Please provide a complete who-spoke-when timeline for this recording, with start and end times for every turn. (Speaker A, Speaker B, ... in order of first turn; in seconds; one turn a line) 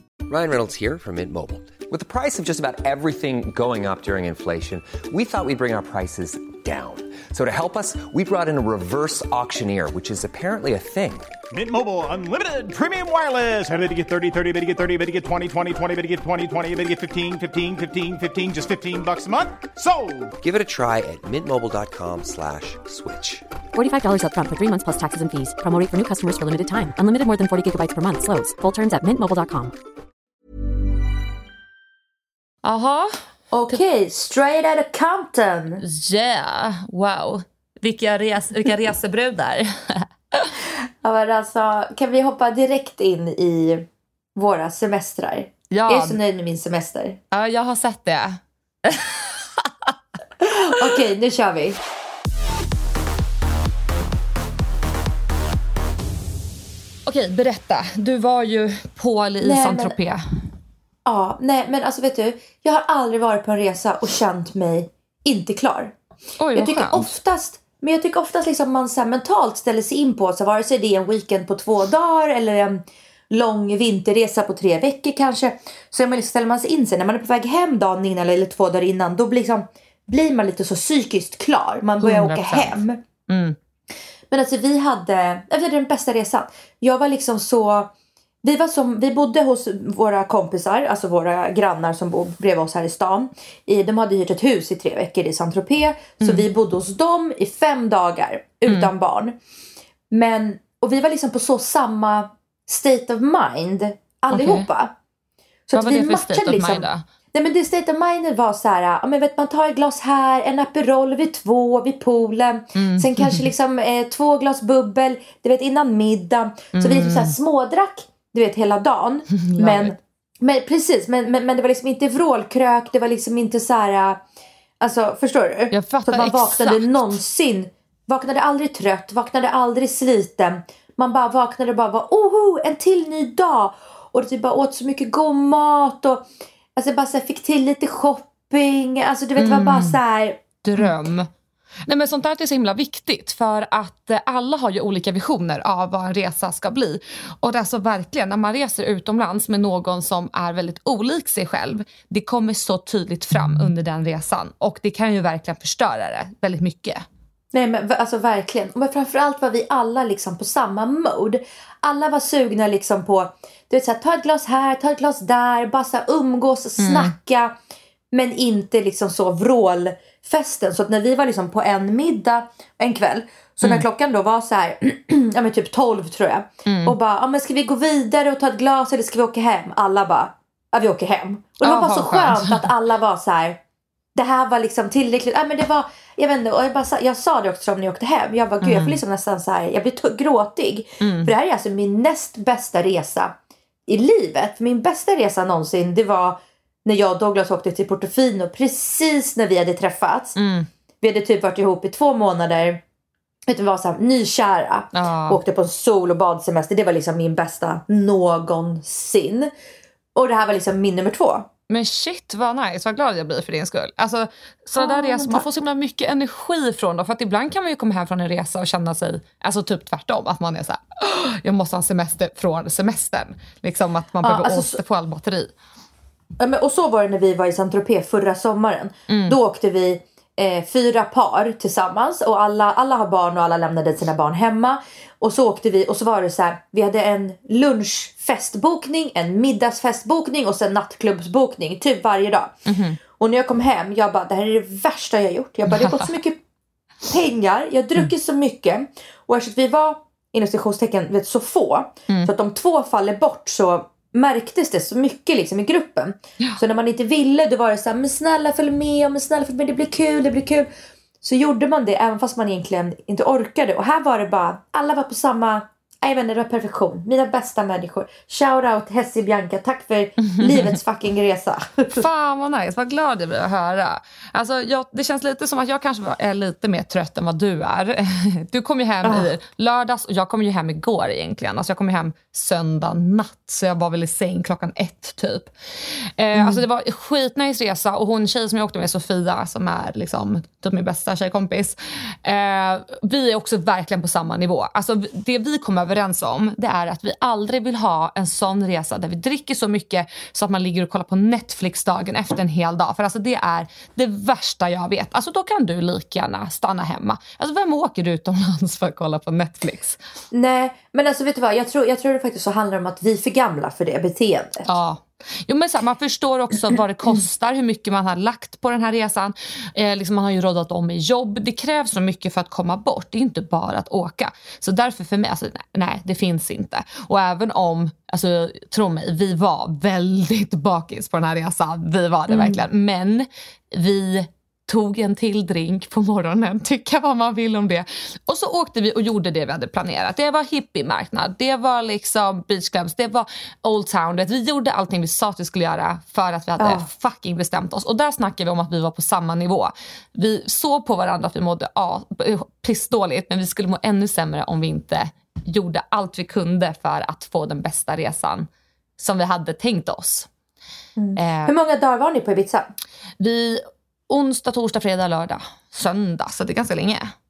Speaker A: 0.3-11.3
Speaker B: 11.5-20.3
Speaker A: 20.4-23.4
Speaker C: 23.7-29.8
Speaker D: 32.6-33.2
Speaker E: 33.5-35.8
Speaker D: 35.8-40.6
Speaker E: 41.0-47.2
Speaker D: 45.7-46.2
Speaker D: 47.3-49.7
Speaker E: 50.4-51.8
Speaker D: 57.1-60.2
Speaker E: 59.4-60.0
Speaker E: 61.0-66.0
Speaker D: 66.4-67.1
Speaker E: 66.5-83.0
Speaker D: 82.0-83.6
Speaker E: 84.3-87.9
Speaker E: 88.4-99.4
Speaker D: 96.2-96.5
Speaker D: 98.7-98.9
Speaker E: 100.1-104.9
Speaker D: 104.3-104.7
Speaker E: 105.7-124.2
Speaker D: 105.8-107.0
Speaker D: 112.8-113.5
Speaker D: 116.8-117.3
Speaker D: 119.4-120.0
Speaker E: 124.8-140.9
Speaker D: 125.7-127.2
Speaker D: 139.4-140.0
Speaker D: 140.6-141.3
Speaker D: 141.9-157.0
Speaker E: 157.5-167.6
Speaker D: 166.8-167.1
Speaker E: 168.1-183.6
Speaker D: 176.7-177.0
Speaker D: 181.6-182.7
Speaker E: 184.2-193.3
Speaker D: 188.6-189.0
Speaker D: 191.0-191.3
Speaker E: 193.9-200.4
Speaker D: 200.4-200.7
Speaker E: 201.0-202.8
Speaker E: 203.5-209.5
Speaker D: 204.9-205.4
Speaker E: 210.2-211.5
Speaker D: 211.7-225.5
Speaker E: 214.8-215.5
Speaker E: 224.2-224.8
Speaker E: 226.4-242.6
Speaker D: 229.1-229.4
Speaker D: 242.7-243.0
Speaker E: 243.2-246.4
Speaker D: 245.7-246.1
Speaker E: 247.1-260.7
Speaker E: 261.2-272.1
Speaker D: 270.3-270.8
Speaker D: 271.9-285.5
Speaker E: 279.0-279.3
Speaker D: 286.1-310.0
Speaker E: 286.3-286.6
Speaker E: 310.3-314.7
Speaker D: 314.7-358.5
Speaker E: 332.3-332.6
Speaker E: 346.6-346.9
Speaker D: 359.0-360.3
Speaker E: 361.0-362.7
Speaker D: 361.2-361.5
Speaker D: 363.2-367.1